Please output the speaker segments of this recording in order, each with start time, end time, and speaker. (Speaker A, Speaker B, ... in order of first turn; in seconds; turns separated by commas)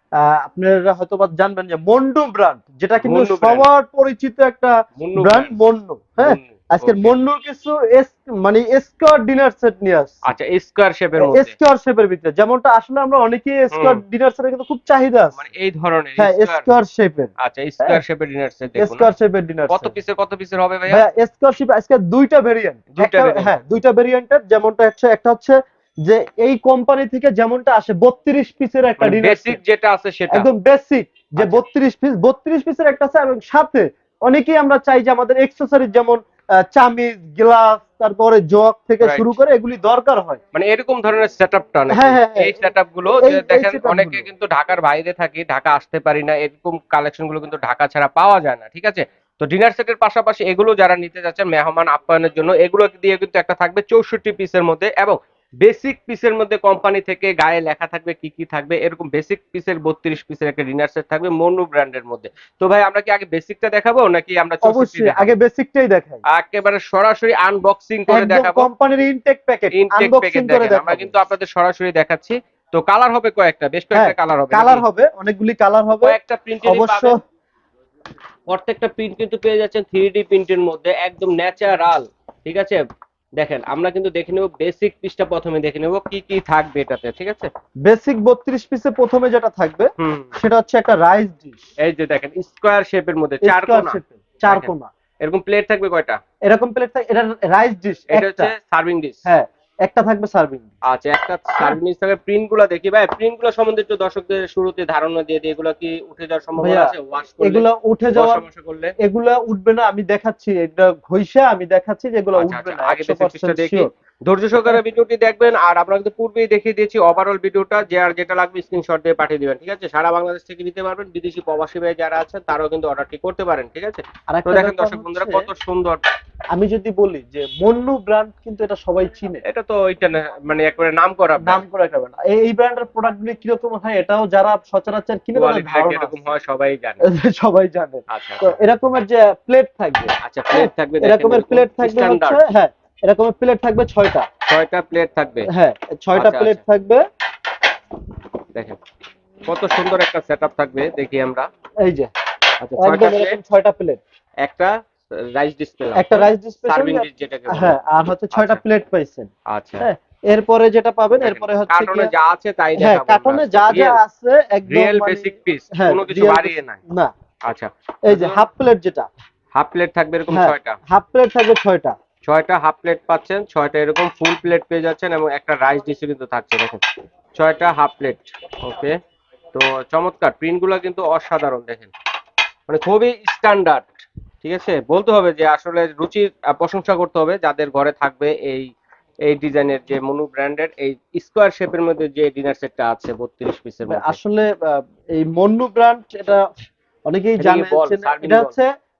Speaker A: 0.2-10.2, Speaker B: 3.0-3.7, Speaker B: 5.0-5.5, Speaker B: 6.2-7.2, Speaker B: 10.2-11.6, Speaker A: 11.2-15.4, Speaker B: 13.7-14.0, Speaker B: 15.3-16.7, Speaker A: 16.2-18.0, Speaker B: 17.4-19.1, Speaker A: 18.8-19.9, Speaker B: 19.7-21.0, Speaker A: 20.9-29.6, Speaker B: 22.9-23.6, Speaker B: 29.0-30.5, Speaker A: 30.3-40.4, Speaker B: 31.4-31.6, Speaker B: 39.0-39.4, Speaker B: 40.5-65.4, Speaker A: 41.9-44.3, Speaker A: 64.6-66.2, Speaker B: 66.3-68.7, Speaker A: 68.1-71.1, Speaker B: 69.7-74.8, Speaker A: 73.9-77.2, Speaker B: 76.0-77.2, Speaker B: 78.5-82.8, Speaker B: 83.4-87.5, Speaker A: 87.8-91.6, Speaker B: 90.0-90.4, Speaker B: 91.8-94.7, Speaker A: 93.4-94.9, Speaker B: 95.2-96.2, Speaker A: 96.5-98.5, Speaker B: 98.1-99.3, Speaker A: 99.2-100.8, Speaker B: 100.8-109.0, Speaker A: 106.6-108.5, Speaker A: 109.0-113.9, Speaker B: 112.4-126.0, Speaker A: 124.3-125.5, Speaker A: 126.5-129.4, Speaker B: 129.4-131.6, Speaker A: 131.4-136.3, Speaker B: 135.3-137.0, Speaker A: 137.0-144.3, Speaker B: 138.1-138.6, Speaker B: 140.2-142.4, Speaker B: 144.5-145.5, Speaker A: 145.5-147.0, Speaker B: 146.1-146.6, Speaker B: 149.4-151.5, Speaker A: 151.8-152.1, Speaker B: 152.6-153.4, Speaker A: 152.8-154.0, Speaker B: 154.4-157.8, Speaker A: 155.9-162.1, Speaker B: 158.3-158.6, Speaker B: 159.5-159.9, Speaker B: 161.2-164.0, Speaker A: 162.8-167.1, Speaker B: 164.7-166.8, Speaker B: 167.5-168.4, Speaker A: 168.1-169.1, Speaker B: 169.5-170.8, Speaker A: 170.3-171.9, Speaker B: 172.2-179.0, Speaker B: 179.5-181.9, Speaker B: 182.7-188.7, Speaker B: 189.2-194.2, Speaker A: 193.9-196.5, Speaker A: 197.1-198.7, Speaker B: 197.4-198.5